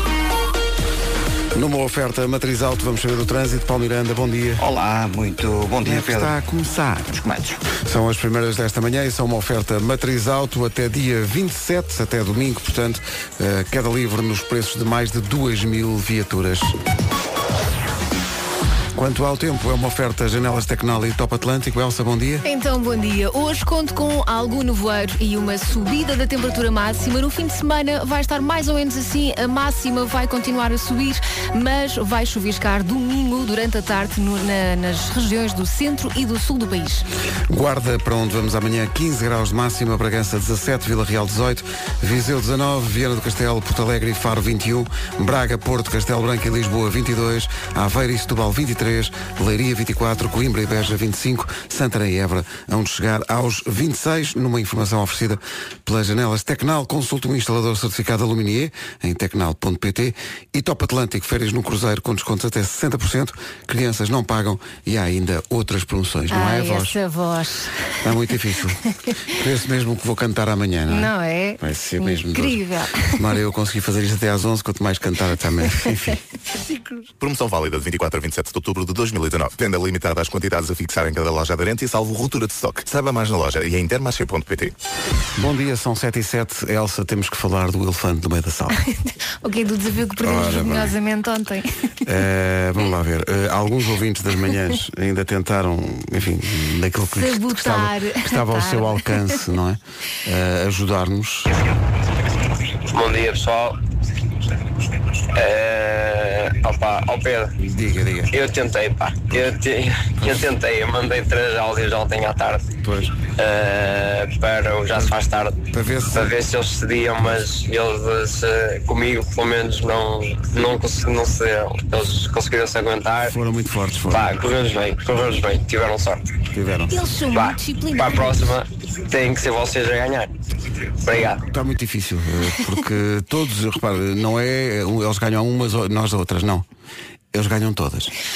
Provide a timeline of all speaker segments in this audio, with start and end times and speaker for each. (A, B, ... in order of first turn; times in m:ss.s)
0:01.5-0:04.6 A
0:04.6-0:06.3 B
0:05.8-0:07.2 A
0:07.1-0:07.6 B
0:07.7-0:16.8 A
0:19.0-0:22.4 A
0:22.4-0:37.1 C
0:37.5-1:07.0 A
1:06.3-1:08.1 C
1:08.0-1:08.8 A
1:09.3-1:16.2 A
1:10.9-1:13.2 C
1:17.2-1:24.7 D
1:25.4-1:28.8 A
1:28.8-1:31.8 C
1:30.2-1:31.0 A
1:32.0-1:41.5 A
1:37.1-1:39.3 C
1:42.9-1:43.8 E
1:45.3-1:47.5 E
1:47.6-1:48.5 A
1:48.3-1:52.7 E
1:52.8-1:53.1 A
1:53.4-1:55.6 E
1:55.7-1:56.3 A
1:56.1-2:03.3 E
2:03.2-2:04.4 A
2:04.1-2:06.3 E
2:06.5-2:07.0 A
2:06.9-2:08.4 C
2:07.3-2:10.3 E
2:11.0-2:11.4 E
2:11.4-2:16.7 A
2:17.3-2:18.1 A